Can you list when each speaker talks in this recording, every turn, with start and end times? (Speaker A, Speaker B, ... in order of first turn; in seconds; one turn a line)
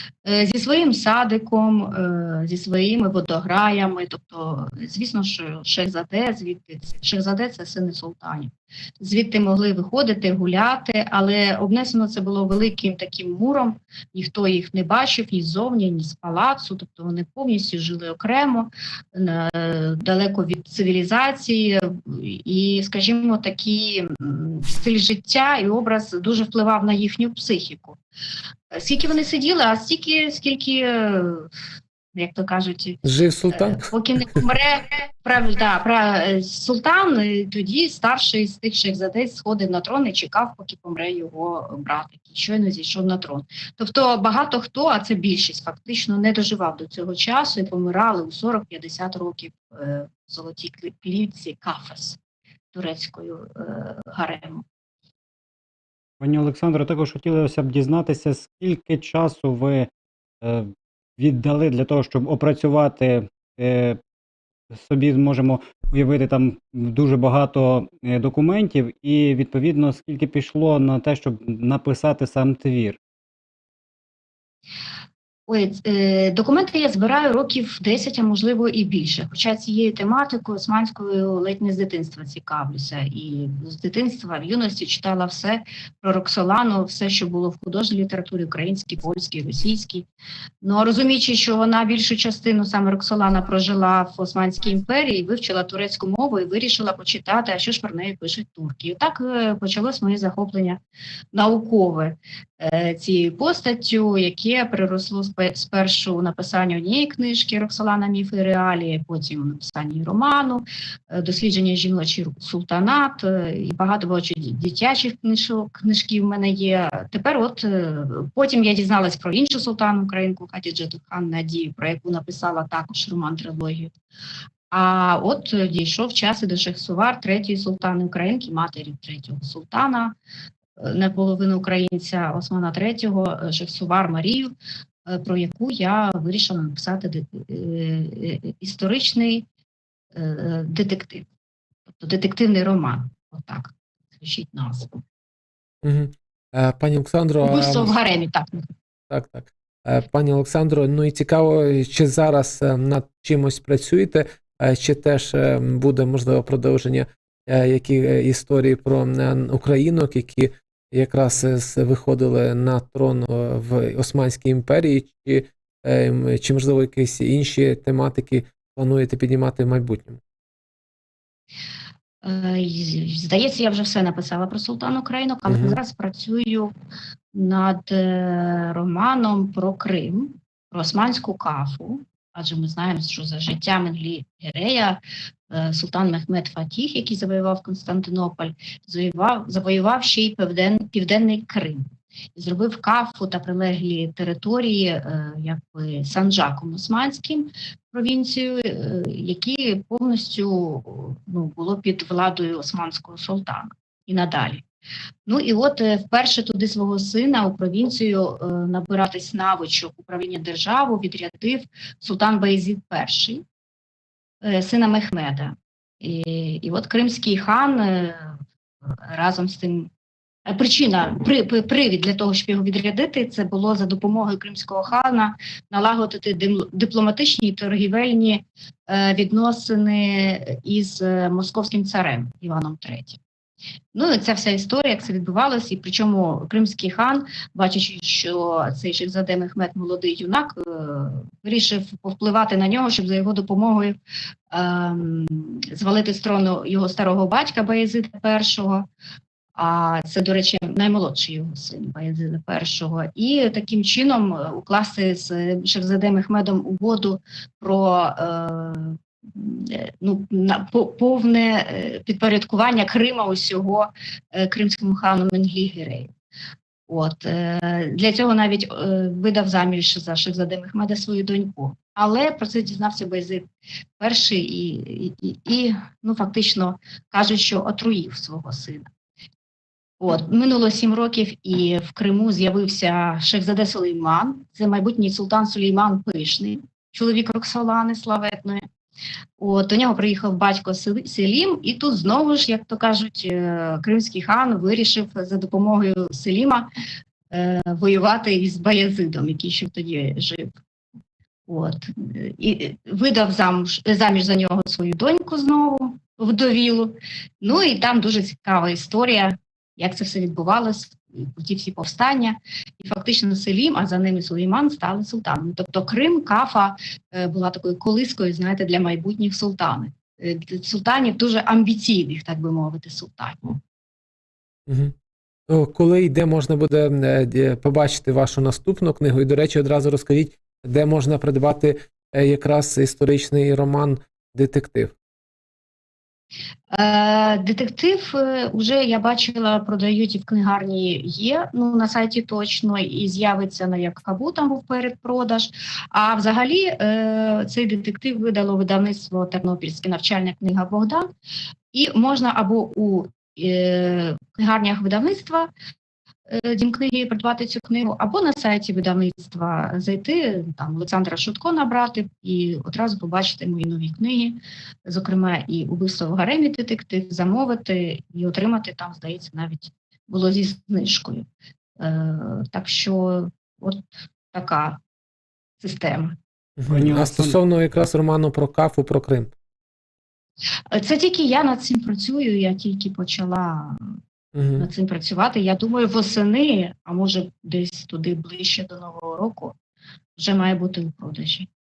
Speaker A: 0.2-28.0
Speaker A: 28.7-31.5
Speaker A: 32.1-52.2
Speaker B: 33.0-33.8
Speaker A: 52.7-54.6
Speaker C: 56.2-59.9
Speaker C: 60.4-64.0
Speaker C: 64.7-73.0
Speaker A: 75.5-90.1
Speaker A: 90.6-100.8
Speaker A: 101.3-123.9
Speaker A: 124.7-130.2
Speaker A: 130.8-134.5
Speaker A: 135.1-139.5
Speaker A: 140.1-141.3
Speaker A: 141.9-145.0
Speaker B: 145.8-147.9
Speaker A: 147.4-148.7
Speaker B: 149.1-170.2
Speaker A: 172.2-176.7
Speaker B: 175.5-175.8
Speaker A: 177.3-191.8
Speaker A: 192.3-204.6
Speaker A: 205.3-213.4
Speaker A: 214.4-218.4
Speaker A: 219.1-219.9
Speaker A: 220.5-233.2
Speaker A: 233.9-244.0
Speaker A: 244.5-248.9
Speaker A: 249.6-266.1
Speaker A: 266.9-273.5
Speaker A: 274.0-278.9
Speaker A: 280.0-288.6
Speaker A: 289.4-296.7
Speaker A: 297.3-300.5
Speaker A: 301.5-323.6
Speaker B: 324.7-324.9
Speaker B: 325.5-334.9
Speaker A: 336.7-351.1
Speaker A: 351.7-355.5
Speaker A: 356.3-371.3
Speaker A: 371.8-374.8
Speaker A: 375.6-376.2
Speaker B: 376.6-379.3
Speaker C: 376.7-377.4
Speaker A: 380.7-384.0
Speaker B: 384.4-384.7
Speaker A: 384.6-389.6
Speaker A: 390.2-391.5